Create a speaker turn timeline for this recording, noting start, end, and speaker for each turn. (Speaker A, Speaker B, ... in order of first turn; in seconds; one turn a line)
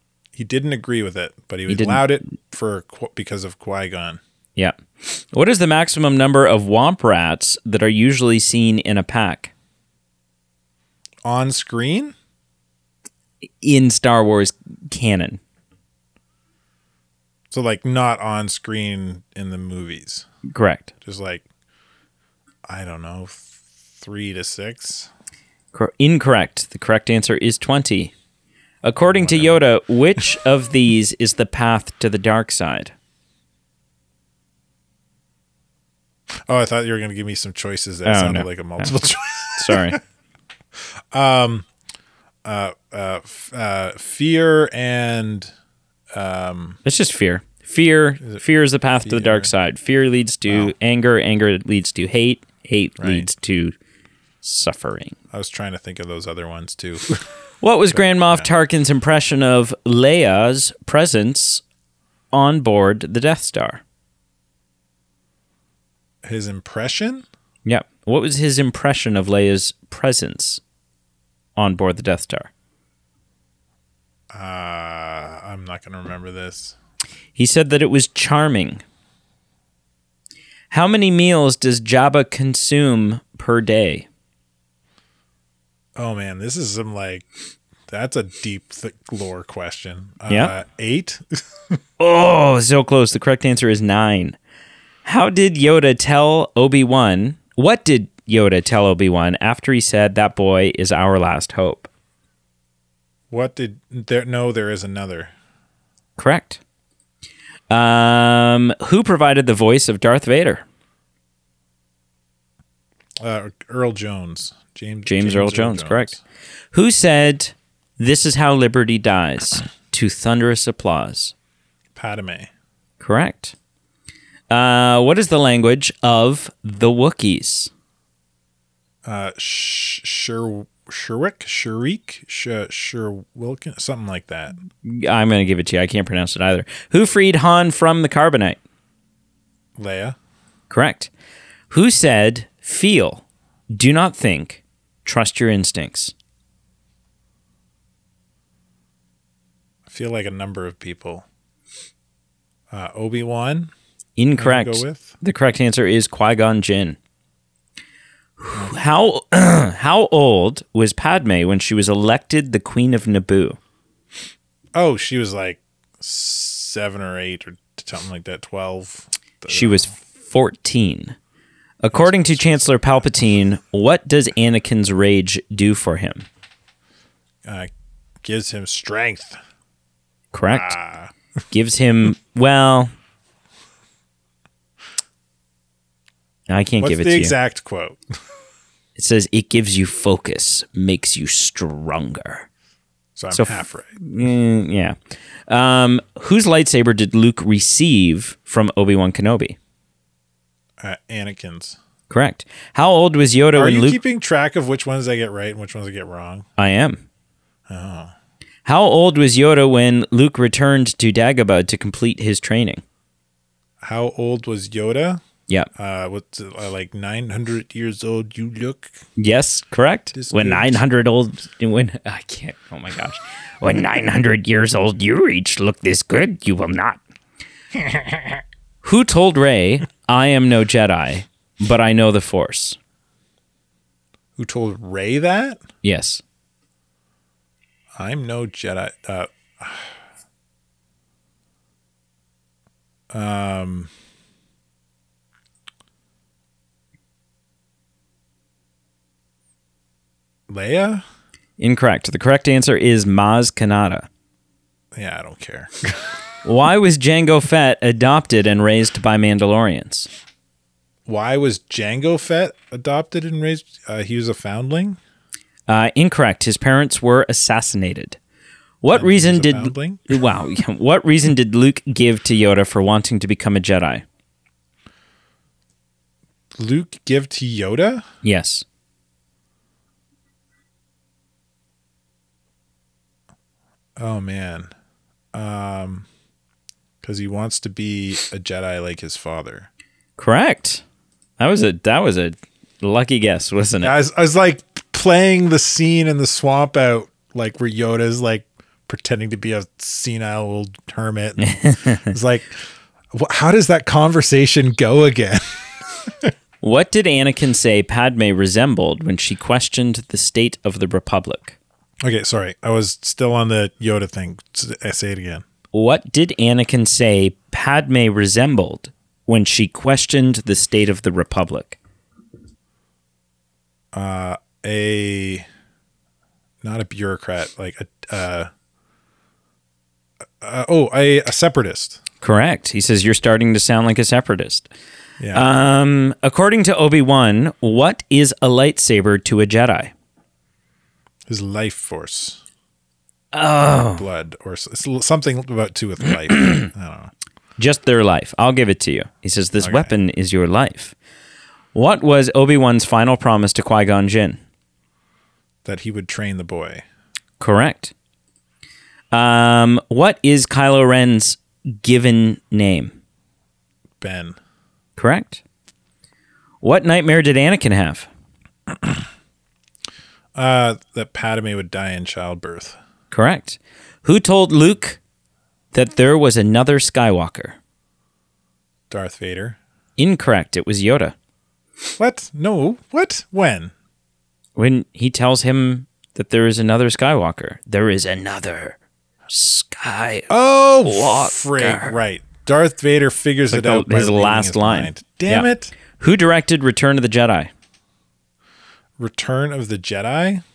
Speaker A: 0.3-4.2
Speaker B: 1.7-2.1
Speaker B: 4.6-9.5
Speaker A: 11.2-12.1
Speaker B: 13.6-15.4
Speaker A: 17.5-20.3
Speaker B: 20.5-20.9
Speaker A: 21.0-21.4
Speaker A: 22.7-25.1
Speaker B: 25.7-28.1
Speaker B: 28.8-32.9
Speaker A: 29.1-29.6
Speaker A: 36.5-40.0
Speaker B: 38.0-38.9
Speaker B: 39.6-40.0
Speaker A: 41.1-41.6
Speaker A: 42.4-45.5
Speaker A: 46.1-46.8
Speaker B: 46.9-53.8
Speaker A: 49.0-49.5
Speaker A: 50.5-50.7
Speaker A: 53.0-53.3
Speaker B: 54.4-55.1
Speaker A: 55.3-57.3
Speaker B: 57.6-61.6
Speaker A: 57.9-58.5
Speaker B: 62.3-63.8
Speaker A: 66.2-67.2
Speaker B: 67.7-70.6
Speaker B: 71.6-72.5
Speaker A: 74.3-76.8
Speaker B: 77.3-78.8
Speaker B: 80.7-84.1
Speaker A: 86.0-87.3
Speaker A: 87.9-91.8
Speaker B: 92.0-94.4
Speaker B: 95.0-101.9
Speaker A: 103.3-105.3
Speaker B: 106.2-106.6
Speaker B: 107.7-110.6
Speaker A: 113.2-116.2
Speaker B: 115.0-116.1
Speaker B: 116.7-121.3
Speaker A: 121.9-122.5
Speaker B: 123.0-123.6
Speaker B: 124.5-127.7
Speaker A: 129.1-134.6
Speaker B: 134.8-138.6
Speaker A: 139.8-140.2
Speaker B: 140.7-141.1
Speaker B: 141.7-146.1
Speaker A: 149.9-151.3
Speaker A: 152.7-153.7
Speaker B: 154.2-157.0
Speaker A: 154.4-155.1
Speaker B: 158.4-163.6
Speaker A: 164.7-169.9
Speaker B: 169.5-171.2
Speaker B: 171.8-176.3
Speaker A: 171.9-173.0
Speaker A: 177.4-177.7
Speaker A: 178.2-179.4
Speaker B: 180.3-180.8
Speaker A: 180.5-181.1
Speaker B: 181.5-182.9
Speaker B: 186.5-187.3
Speaker A: 186.8-188.0
Speaker B: 188.9-192.5
Speaker A: 193.2-193.9
Speaker B: 193.3-194.9
Speaker B: 195.5-199.6
Speaker A: 200.8-201.8
Speaker B: 202.1-204.0
Speaker A: 203.6-206.4
Speaker B: 206.6-207.0
Speaker A: 207.7-208.1
Speaker B: 208.6-212.8
Speaker A: 213.8-215.2
Speaker A: 215.7-218.9
Speaker B: 219.2-227.0
Speaker A: 220.1-220.8
Speaker A: 227.7-228.4
Speaker B: 228.8-232.8
Speaker A: 234.4-235.6
Speaker B: 235.8-236.2
Speaker A: 238.0-240.0
Speaker A: 243.1-243.9
Speaker A: 250.5-251.0
Speaker B: 251.6-254.1
Speaker A: 254.9-256.2
Speaker B: 256.4-260.1
Speaker A: 261.1-265.0
Speaker B: 265.7-268.2
Speaker B: 268.8-274.0
Speaker A: 268.9-270.2
Speaker A: 276.6-278.1
Speaker B: 278.2-278.6
Speaker A: 284.0-284.7
Speaker A: 285.3-286.1
Speaker A: 287.0-289.7
Speaker B: 290.2-290.8
Speaker B: 291.4-293.9
Speaker A: 293.8-302.6
Speaker B: 301.4-302.1
Speaker A: 303.1-306.3
Speaker B: 306.6-311.6
Speaker A: 312.0-315.4
Speaker B: 315.7-321.8
Speaker A: 323.9-325.4
Speaker A: 326.6-328.5
Speaker A: 330.4-332.0
Speaker B: 332.2-334.7
Speaker A: 335.2-335.5
Speaker B: 335.3-339.9
Speaker A: 341.3-342.4
Speaker B: 343.3-344.0
Speaker A: 343.9-347.1
Speaker B: 346.4-346.7
Speaker B: 347.6-350.9
Speaker A: 349.6-349.9
Speaker B: 351.7-354.4
Speaker A: 355.6-356.9
Speaker B: 357.4-357.9
Speaker B: 359.1-362.9
Speaker A: 364.0-364.4
Speaker B: 364.9-365.4
Speaker B: 366.6-368.1
Speaker A: 370.4-372.8
Speaker B: 373.1-375.0
Speaker B: 375.7-377.6
Speaker A: 378.9-379.6
Speaker B: 380.0-381.1
Speaker A: 382.0-383.7
Speaker B: 384.6-388.8
Speaker B: 389.3-390.3
Speaker A: 390.3-395.7
Speaker B: 390.8-391.9
Speaker B: 393.5-397.5
Speaker A: 399.0-400.4